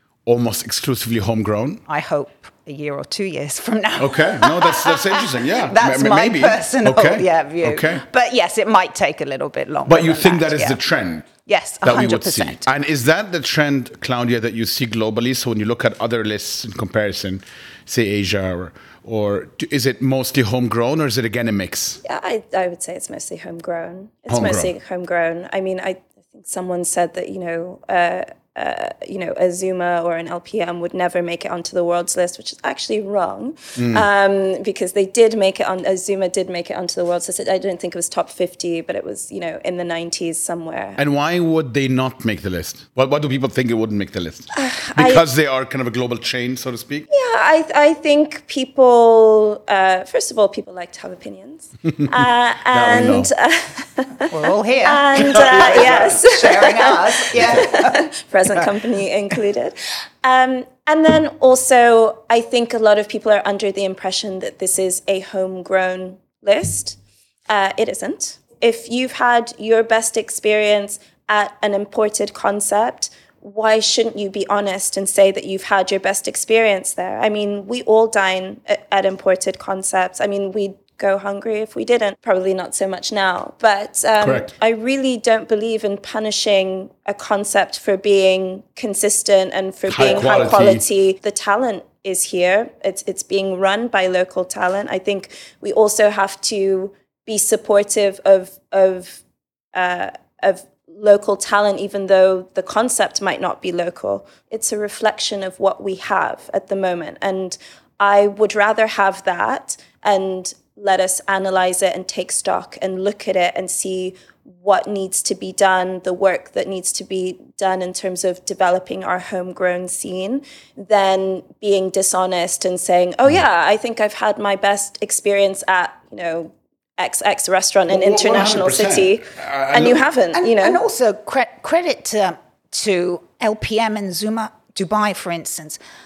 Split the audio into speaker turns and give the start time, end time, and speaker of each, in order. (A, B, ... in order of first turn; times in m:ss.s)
0:00.2-0:01.8 A
0:01.9-0:10.8 B
0:04.0-0:08.0 A
0:09.9-0:11.3 A
0:11.4-0:12.6 B
0:11.8-0:22.0 A
0:22.0-0:41.0 C
0:24.3-0:24.7 A
0:33.8-0:34.0 A
0:41.0-0:47.1 A
0:44.5-0:45.2 C
0:47.1-0:54.3 C
0:52.7-0:53.3 A
0:54.3-0:58.0 B
0:54.8-1:07.0 C
0:55.2-0:56.2 A
1:07.5-1:39.2 C
1:24.2-1:24.5 A
1:29.9-1:30.8 A
1:39.7-2:10.8 C
2:07.9-2:10.0 A
2:10.3-2:15.8 B